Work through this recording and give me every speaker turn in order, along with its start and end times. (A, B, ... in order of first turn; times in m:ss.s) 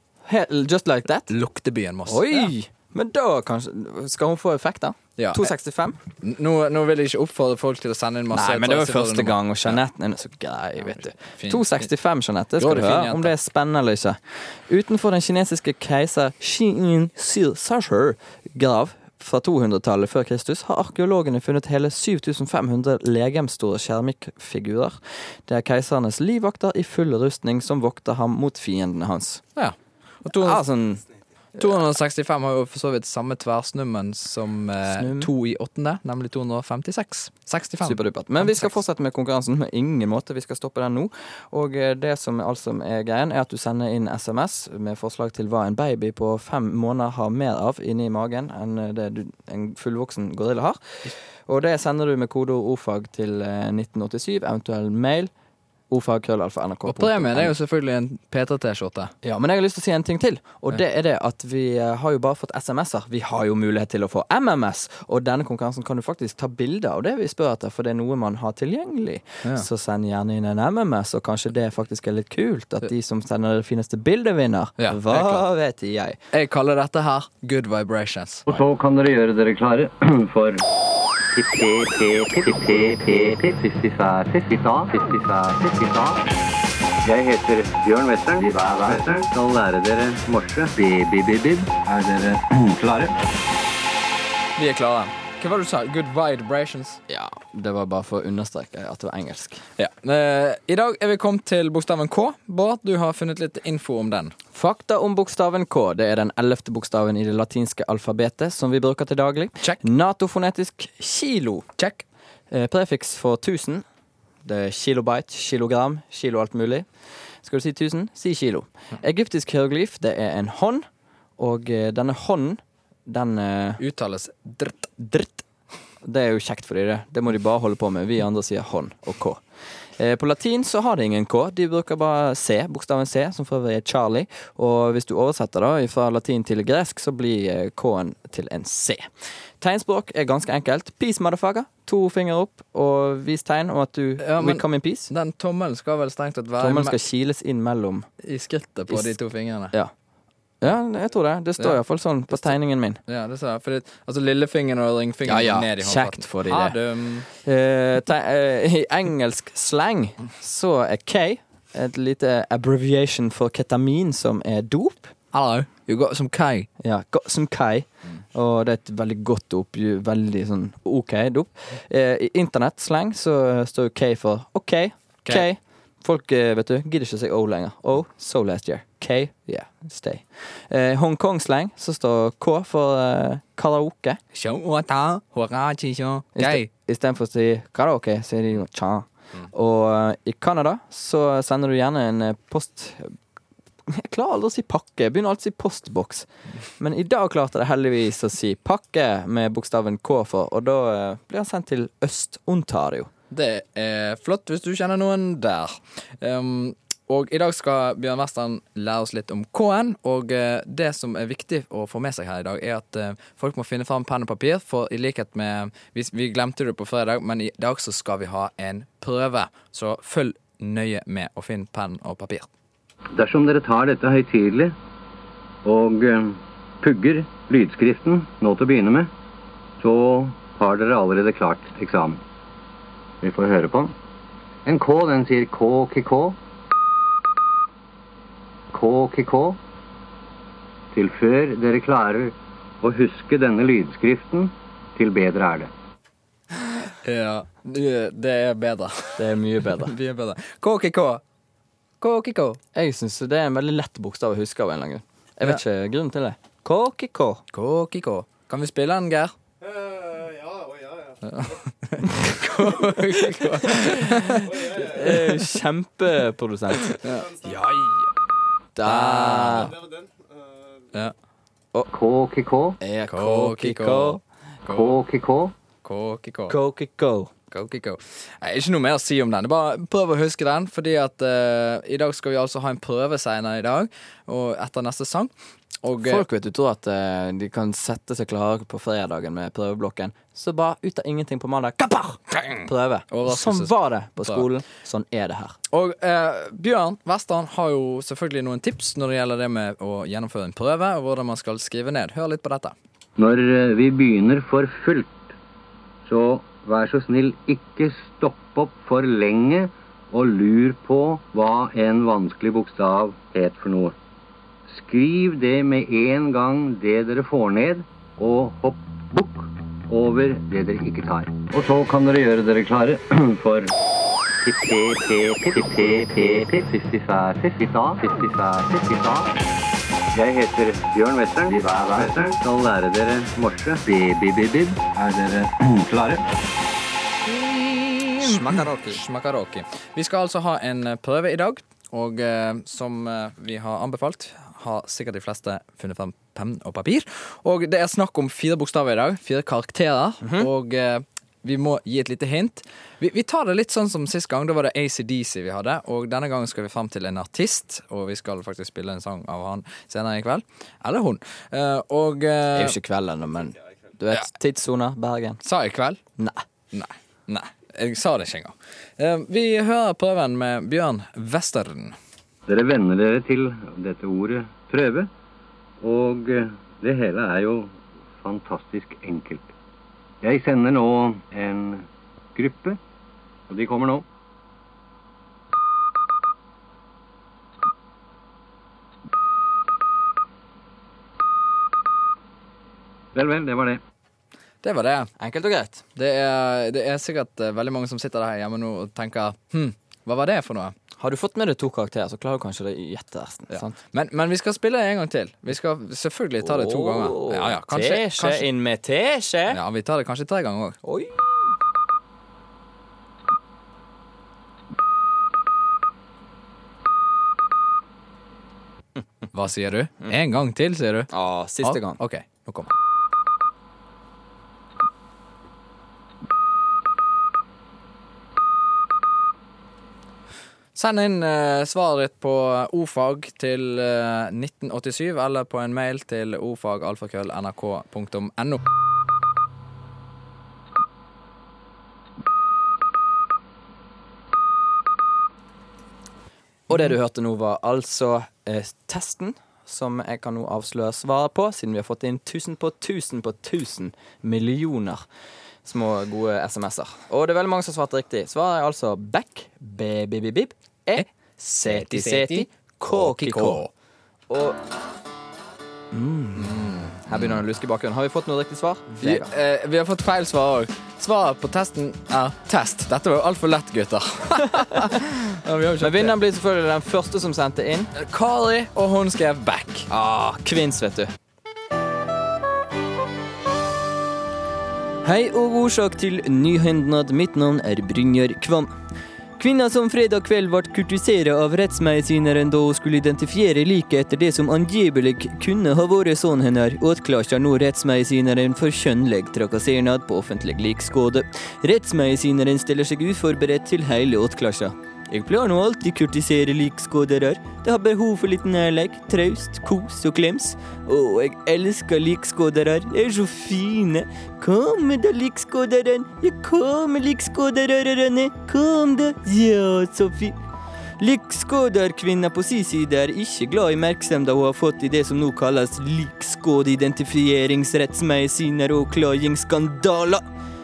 0:00.2-0:01.3 A
0:01.2-0:02.5 B
0:02.0-0:06.0 A
0:05.2-0:05.5 B
0:06.2-0:09.8 B
0:08.3-0:29.4 A
0:10.8-0:11.9 B
0:12.6-0:13.3 B
0:29.5-0:30.6 B
0:30.3-0:31.0 A
0:31.6-0:38.8 B
0:34.8-0:35.3 A
0:37.8-0:55.3 A
0:55.9-0:57.5 A
0:56.9-0:59.1 B
0:59.2-1:16.2 A
1:14.8-1:15.4 B
1:16.3-1:18.6 B
1:18.5-1:20.6 C
1:21.3-1:26.2 C
1:27.0-1:33.1 C
1:34.6-1:37.0 B
1:37.1-1:39.6 A
1:39.8-1:44.3 B
1:44.5-1:51.6 A
1:51.8-1:52.0 B
1:52.5-1:53.8 A
1:54.4-1:56.8 A
1:57.4-2:00.8 A
2:01.4-2:03.8 A
2:03.8-2:05.0 B
2:05.0-2:05.4 A
2:06.0-2:09.4 A
2:10.0-2:19.0 A
2:19.6-2:25.1 A
2:24.2-2:27.0 B
2:26.6-2:28.1 A
2:28.2-2:29.7 B
2:28.9-2:29.2 A
2:30.6-2:33.0 A
2:32.3-2:37.3 B
2:35.2-2:45.1 A
2:45.3-2:46.7 B
2:46.8-3:04.2 A
3:04.3-3:06.7 B
3:06.4-3:13.1 A
3:13.9-3:16.3 A
3:16.8-3:23.1 A
3:23.3-3:42.5 B
3:43.1-3:44.7 C
3:45.6-3:49.1 C
3:49.8-3:52.2 C
3:53.2-3:53.9 C
3:54.6-3:56.4 C
3:58.7-3:59.6 C
4:00.9-4:05.7 C
4:06.9-4:11.2 B
4:09.2-4:09.9 A
4:12.0-4:12.6 B
4:12.7-4:17.4 A
4:17.5-4:19.3 B
4:21.2-4:25.5 B
4:24.6-4:27.0 A
4:26.8-4:28.1 B
4:28.8-4:29.8 A
4:28.8-4:29.8 B
4:31.9-4:32.8 C
4:32.8-4:34.2 A
4:33.1-4:35.0 B
4:34.7-4:35.5 C
4:35.8-4:36.6 B
4:36.5-4:37.3 A
4:37.5-4:45.3 B
4:45.8-4:46.2 B
4:46.0-4:55.6 A
4:52.4-4:54.5 B
4:55.7-5:02.7 B
5:03.2-5:05.1 C
5:06.0-5:14.0 C
5:14.7-5:23.7 C
5:24.4-5:29.3 C
5:30.1-5:36.2 C
5:37.3-6:02.8 B
5:38.2-5:39.0 A
6:02.5-6:05.4 A
6:05.4-6:06.0 B
6:06.7-6:12.0 B
6:12.5-6:15.1 C
6:15.8-6:19.5 C
6:20.2-6:22.8 C
6:23.5-6:24.0 C
6:33.1-6:33.8 C
6:34.6-6:35.1 B
6:35.2-6:35.8 A
6:36.0-6:40.7 B
6:41.0-6:43.8 A
6:43.5-6:48.5 B
6:46.4-6:49.6 A
6:49.5-6:50.8 B
6:50.8-6:51.5 A
6:59.3-7:01.1 B
7:01.1-7:02.0 A
7:01.6-7:02.7 B
7:10.7-7:18.6 B
7:26.7-7:35.0 A
7:35.6-7:43.6 A
7:41.6-7:43.7 B
7:44.3-7:44.6 A
7:45.9-7:49.3 A
7:46.4-7:47.4 B
7:49.0-7:56.2 B
7:55.8-7:57.9 A
7:57.9-7:59.9 B
7:59.9-8:01.1 A
8:05.0-8:08.7 A
8:09.4-8:40.4 A
8:41.0-8:50.2 A